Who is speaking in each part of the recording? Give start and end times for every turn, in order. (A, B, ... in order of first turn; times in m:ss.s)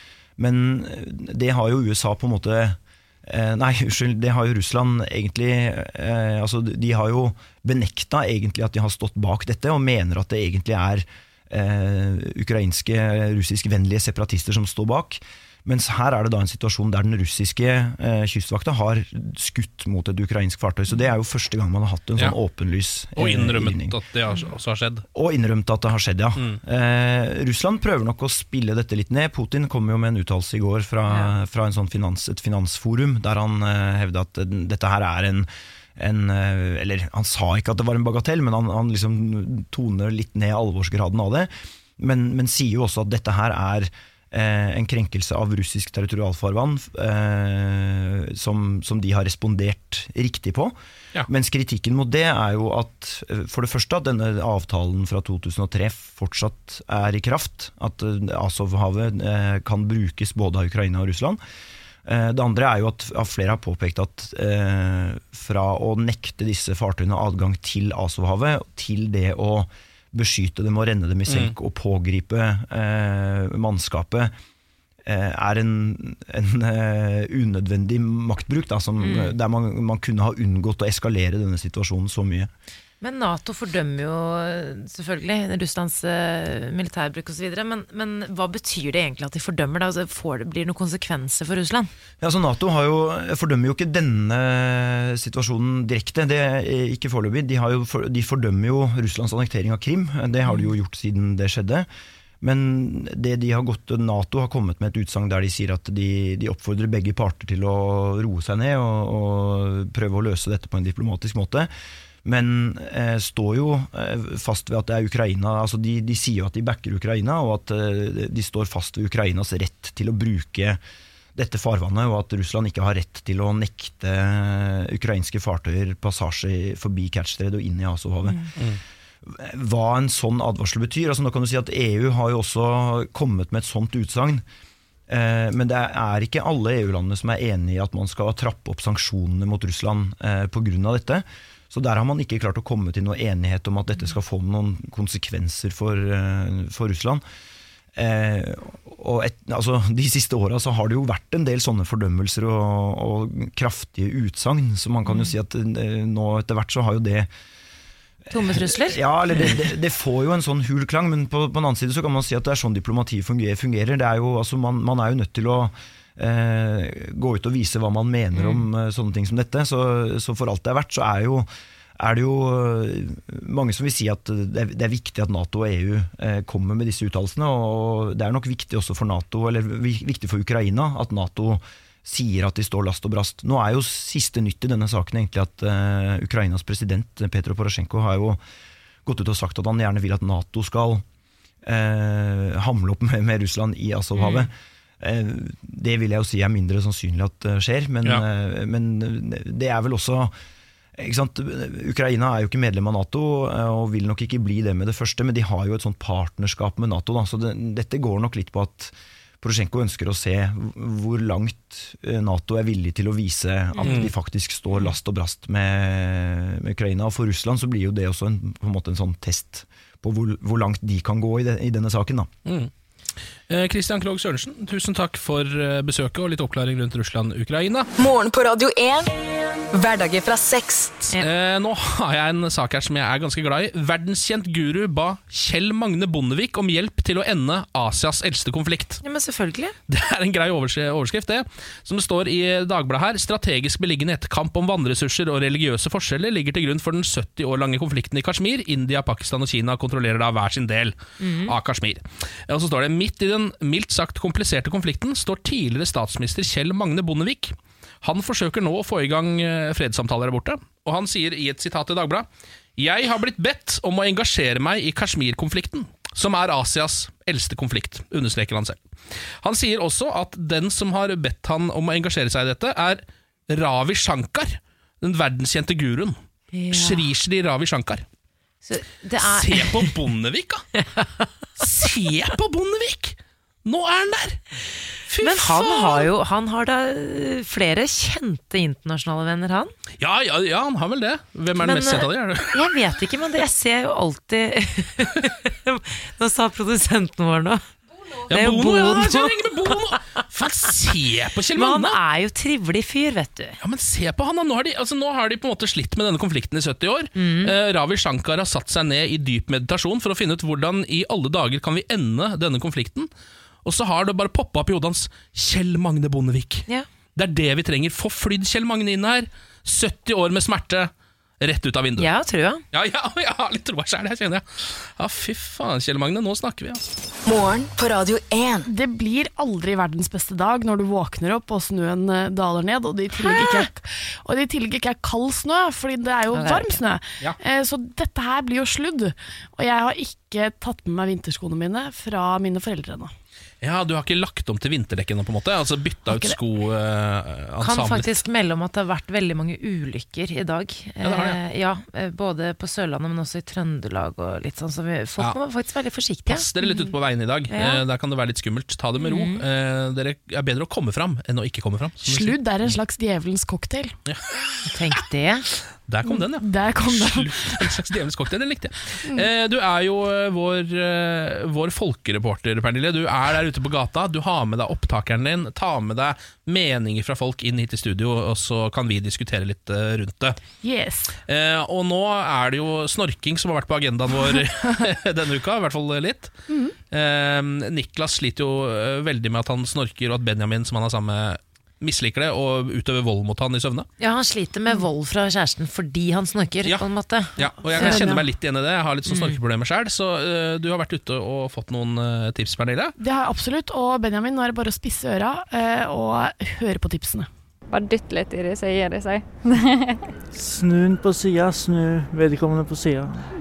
0:00.4-0:24.0 A
0:23.2-0:25.0 B
0:25.1-0:50.7 A
0:51.3-1:01.4 A
1:02.0-1:14.3 A
1:11.3-1:11.5 B
1:15.1-1:22.5 A
1:19.0-1:19.4 C
1:23.0-1:31.9 C
1:32.2-1:41.9 A
1:42.4-1:51.7 A
1:52.2-2:00.8 A
2:01.4-2:08.5 A
2:08.2-2:08.5 C
2:09.2-2:14.4 A
2:15.1-2:27.2 A
2:28.0-2:37.3 A
2:35.1-2:35.3 C
2:38.3-2:39.7 C
2:38.4-3:08.4 A
2:48.3-2:48.7 C
3:09.1-3:11.0 A
3:11.6-3:20.3 A
3:14.2-3:14.5 C
3:21.0-3:42.3 A
3:33.8-3:34.1 C
3:33.8-3:34.1 B
3:42.5-3:42.7 B
3:43.5-3:47.9 B
3:48.0-3:51.0 D
3:51.1-3:59.0 B
3:59.0-3:59.8 C
3:59.9-4:36.2 B
4:11.2-4:11.6 C
4:36.5-4:37.1 C
4:36.7-4:38.0 B
4:38.6-4:39.9 C
4:39.2-4:40.7 B
4:40.8-4:41.6 C
4:41.6-4:44.4 B
4:45.1-4:46.1 B
4:45.2-4:49.7 C
4:50.0-4:52.6 B
4:51.6-4:57.6 C
4:58.2-5:00.0 C
4:58.3-5:02.0 B
5:01.5-5:03.6 C
5:03.6-5:13.1 B
5:07.2-5:07.5 C
5:13.6-5:22.1 B
5:22.0-5:22.6 C
5:22.7-5:26.8 B
5:27.3-5:28.7 D
5:28.7-5:43.1 E
5:33.2-5:33.6 C
5:36.3-5:36.8 C
5:43.6-5:48.2 B
5:47.6-5:56.8 C
5:51.0-5:51.4 B
5:56.3-6:02.8 B
5:57.5-5:57.8 C
5:59.0-5:59.4 C
6:02.0-6:04.0 E
6:04.0-6:04.7 B
6:04.7-6:05.5 C
6:05.7-6:20.4 B
6:06.1-6:07.7 E
6:20.6-6:21.1 E
6:21.3-6:26.4 B
6:26.5-6:26.8 E
6:26.9-6:33.9 B
6:34.0-6:38.2 C
6:36.6-6:43.0 B
6:37.7-6:38.2 E
6:39.1-6:39.4 C
6:43.0-6:47.3 E
6:47.7-6:50.0 F
6:50.3-6:53.3 G